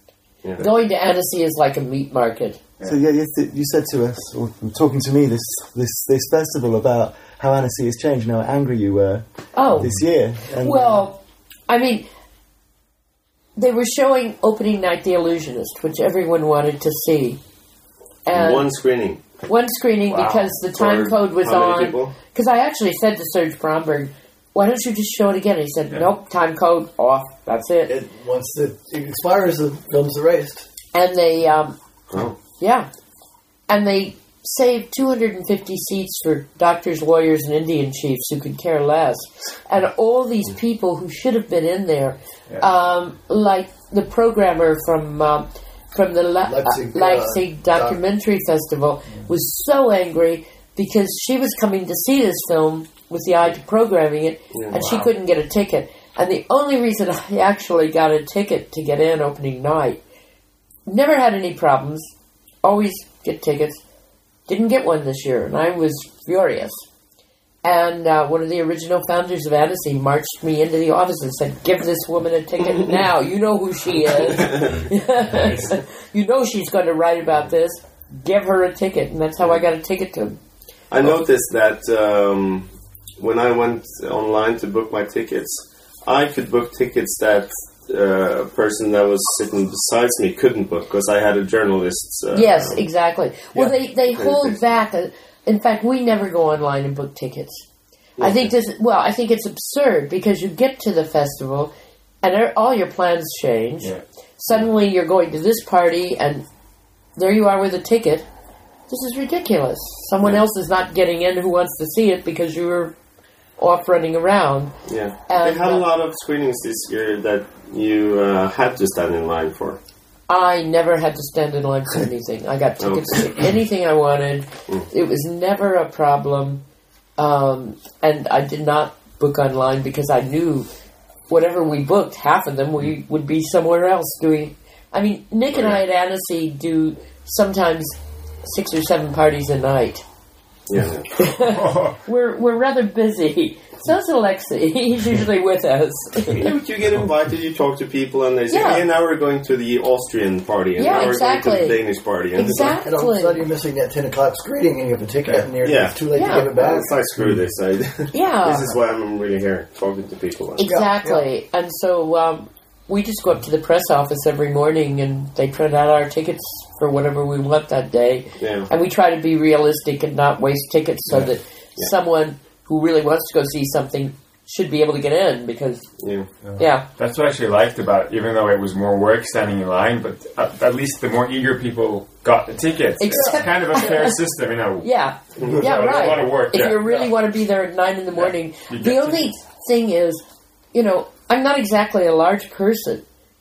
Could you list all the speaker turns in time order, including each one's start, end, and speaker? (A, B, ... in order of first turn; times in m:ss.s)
0:00.4-0:00.7 A
0:00.6-0:02.6 B
0:02.8-0:09.2 C
0:09.6-0:12.0 B
0:09.8-0:11.1 C
0:13.6-0:17.4 B
0:18.3-0:18.7 B
0:18.3-0:19.2 A
0:19.4-0:28.0 B
0:20.1-0:20.5 D
0:20.7-0:22.2 A
0:27.9-0:30.7 E
0:30.9-0:31.8 B
0:32.1-0:32.4 A
0:32.6-0:32.9 B
0:33.7-1:00.0 B
0:46.5-0:48.0 E
0:54.5-0:55.0 A
1:00.9-1:02.1 B
1:02.6-1:03.8 B
1:04.5-1:06.8 B
1:07.6-1:20.4 B
1:20.9-1:32.9 A
1:32.3-1:37.6 B
1:33.6-1:34.6 A
1:38.2-1:38.5 A
1:38.2-1:41.7 B
1:42.2-1:46.4 B
1:47.2-1:48.3 B
1:48.9-1:52.9 B
1:53.6-1:54.8 B
1:54.9-1:59.8 A
1:55.3-1:55.9 B
2:00.3-2:06.6 B
2:02.8-2:03.4 A
2:07.2-2:10.7 B
2:11.3-2:20.0 B
2:15.5-2:15.8 A
2:20.7-2:21.1 A
2:21.2-2:26.5 B
2:21.4-2:22.0 D
2:26.3-2:32.8 A
2:28.5-2:28.8 B
2:30.8-2:31.8 B
2:32.3-2:33.4 B
2:32.7-2:37.0 E
2:35.6-2:40.8 A
2:36.1-2:36.5 B
2:38.1-2:38.7 B
2:40.6-2:55.9 B
2:40.6-2:41.2 E
2:48.4-2:48.7 A
2:51.1-2:51.9 A
2:56.0-2:56.3 A
2:56.6-2:56.9 B
2:57.0-3:07.1 D
3:03.0-3:04.2 B
3:04.8-3:13.0 B
3:08.1-3:09.3 D